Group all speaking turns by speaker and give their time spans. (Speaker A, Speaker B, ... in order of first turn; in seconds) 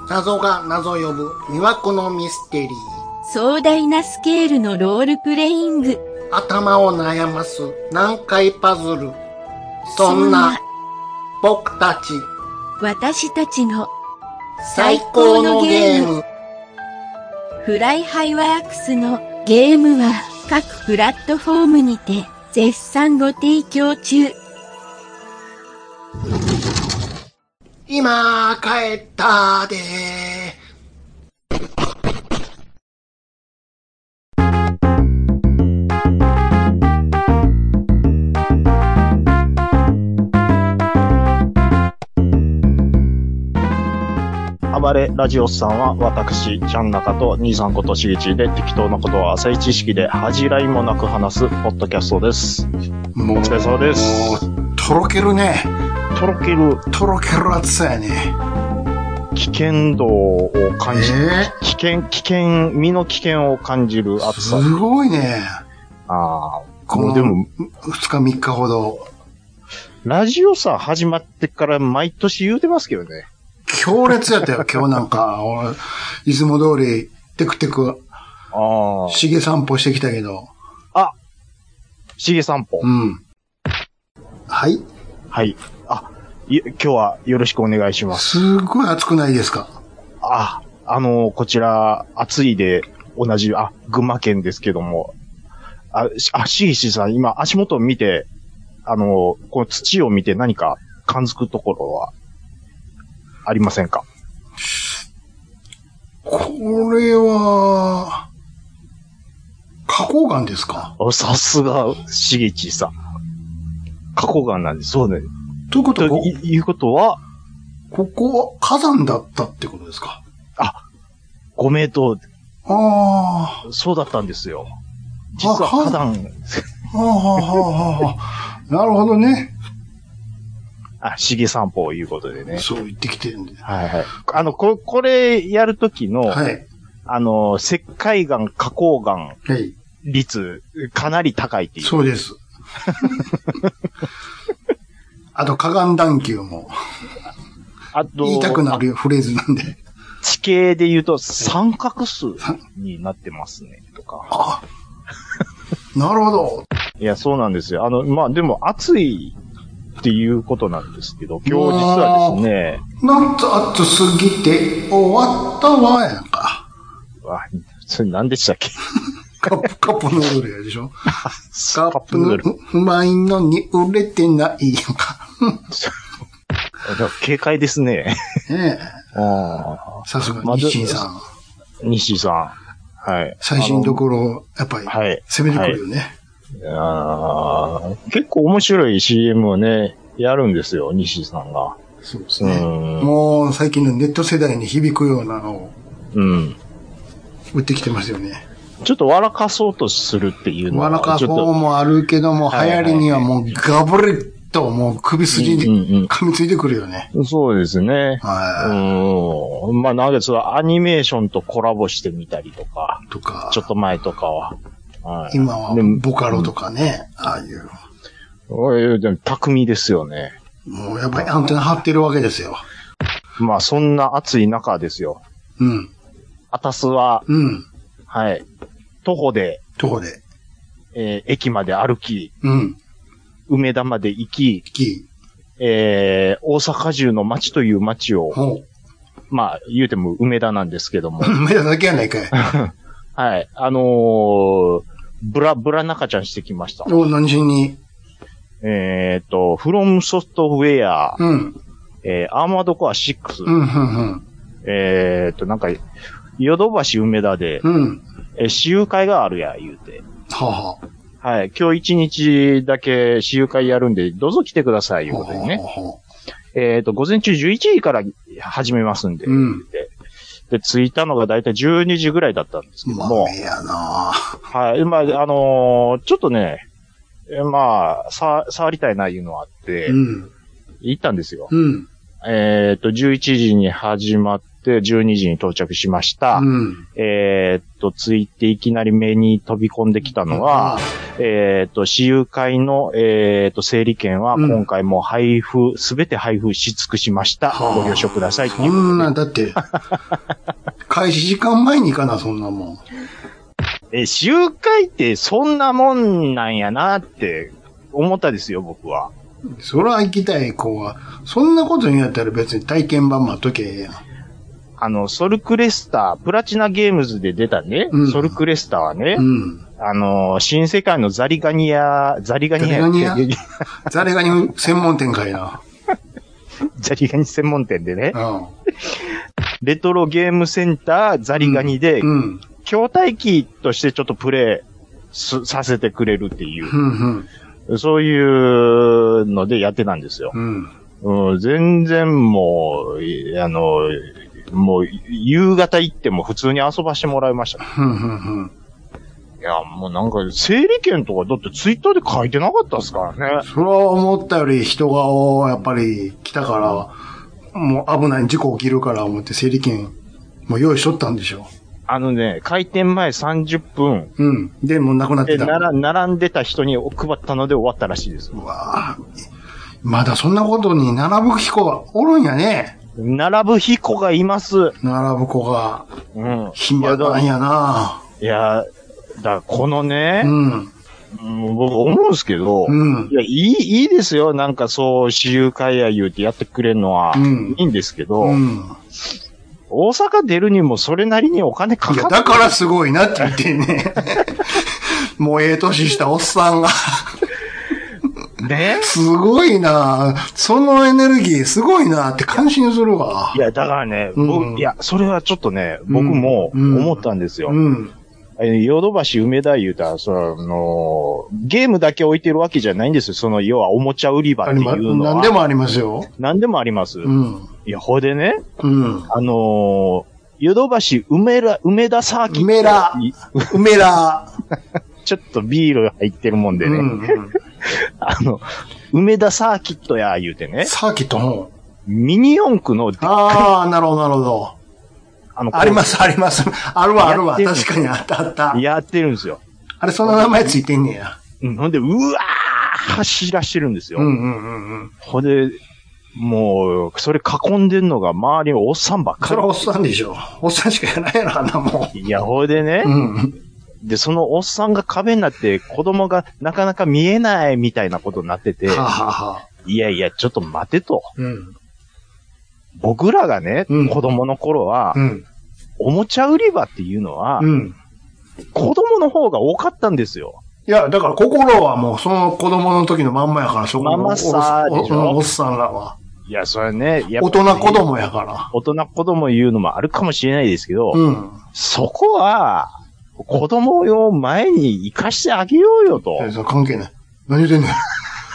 Speaker A: 0.1-2.9, 6.3-9.2, 9.9-10.6, 11.4-12.3, 14.7-16.2, 27.9-30.6, 53.1-55.7, 56.9-58.4, 60.9-61.5, 64.2-65.6, 66.9-69.1, 73.7-78.0, 79.1-80.5, 82.8-83.2, 84.5-84.8, 88.1-89.8, 104.6-104.9, 106.2-108.2, 109.9-110.9, 115.7-116.3, 117.9-120.2, 122.7-123.6, 125.4-126.0, 126.9-129.5, 132.5-133.6, 136.3-136.6, 139.4-139.7, 141.8-142.4, 145.3-146.7, 148.2-149.8, 154.3-154.6, 155.9-156.6, 161.4-162.4, 163.0-166.6, 169.4-170.9, 171.7-175.6, 178.5-178.9, 180.1-181.2, 183.4-186.1, 192.0-195.7, 197.5-198.4, 200.7-207.1, 208.2-208.8, 213.1-213.6, 215.3-217.7, 220.7-222.6, 225.6-225.9, 227.3-227.7, 229.8-230.2, 232.4-232.8, 234.7-235.1, 238.3-238.6, 241.2-242.3, 246.8-247.8, 251.2-251.6, 253.4-254.2, 257.6-258.0, 260.3-260.8, 265.1-266.0, 269.2-269.6, 272.9-274.3, 279.9-280.3, 281.5-281.9, 286.3-286.8, 290.3-290.8, 294.3-294.6, 297.5-299.6, 300.9-302.8, 309.5-314.0, 317.9-318.4, 319.1-319.6, 322.6-323.2, 323.9-325.6, 328.1-328.5, 331.4-332.4, 336.7-337.3, 340.3-340.7, 347.6-348.5, 353.4-356.9, 357.5-359.9, 360.5-361.5, 364.2-365.6, 368.3-369.1, 369.8-372.7, 374.8-375.9, 376.5-378.0, 380.2-380.7, 382.6-383.1, 387.1-387.6, 388.2-388.8, 391.9-397.2, 398.8-403.4, 404.1-404.7, 405.9-407.9, 414.4-416.1, 417.0-417.5, 418.6-419.1, 422.3-424.3, 426.6-427.4, 430.6-431.5, 433.0-434.5, 435.5-438.6, 439.8-441.2, 443.9-444.9, 449.2-451.9, 452.8-453.3, 458.7-459.4, 461.2-461.5, 463.7-464.0, 464.9-465.2, 467.4-467.8, 470.6-476.0, 477.2-478.5, 480.9-481.4, 486.2-487.8
Speaker B: 3.2-6.0, 9.9-10.6, 12.8-13.9, 14.6-16.1, 17.6-24.4
Speaker C: 44.7-52.7, 53.4-54.4, 56.1-56.8, 59.3-64.7, 66.1-67.5, 70.0-73.3, 78.5-79.3, 82.2-82.9, 85.3-88.4, 90.2-95.1, 95.9-98.3, 98.8-102.1, 103.5-104.0, 111.0-112.9, 114.1-115.3, 115.9-117.2, 121.6-122.2, 123.6-124.7, 125.3-126.7, 131.0-132.6, 133.6-136.4, 137.1-139.4, 140.0-142.0, 142.9-143.2, 147.9-148.8, 150.2-154.3, 157.0-159.3, 160.0-162.8, 167.2-168.9, 171.2-172.4, 176.8-178.4, 179.1-181.0, 181.8-184.0, 184.8-185.8, 186.6-191.8, 192.4-193.1, 196.1-196.6, 198.8-201.5, 202.5-203.3, 205.3-206.1, 207.1-216.5, 218.5-220.3, 223.4-225.2, 226.5-227.2, 228.1-228.4, 229.0-229.6, 230.9-232.3, 233.5-234.7, 235.6-238.4, 239.3-241.4, 242.3-246.9, 248.6-251.2, 252.0-253.5, 254.6-255.8, 256.4-257.6, 258.4-260.0, 261.2-265.6, 266.5-269.9, 270.5-273.3, 274.5-276.6, 277.3-280.0, 280.8-281.5, 282.2-299.1, 303.9-309.1, 314.8-319.2, 319.8-323.4, 326.8-328.2, 329.6-332.1, 332.6-336.8, 337.7-340.3, 341.0-347.6, 349.4-353.4, 361.9-364.1, 365.2-368.3, 373.0-374.8, 376.1-377.2, 378.2-380.3, 381.1-388.4, 389.7-392.5, 398.4-398.9, 403.3-407.6, 408.4-415.4, 416.2-417.1, 417.6-418.4, 419.1-423.5, 425.0-427.1, 427.6-430.7, 431.9-433.5, 435.4-436.1, 437.0-437.7, 438.5-439.4, 440.0-440.6, 441.4-444.1, 445.0-445.6, 446.1-449.7, 451.9-452.9, 453.8-458.9, 459.6-461.1, 462.8-465.0, 465.8-467.5, 468.5-470.4, 473.8-475.2, 476.3-477.8, 478.5-481.0, 481.5-486.3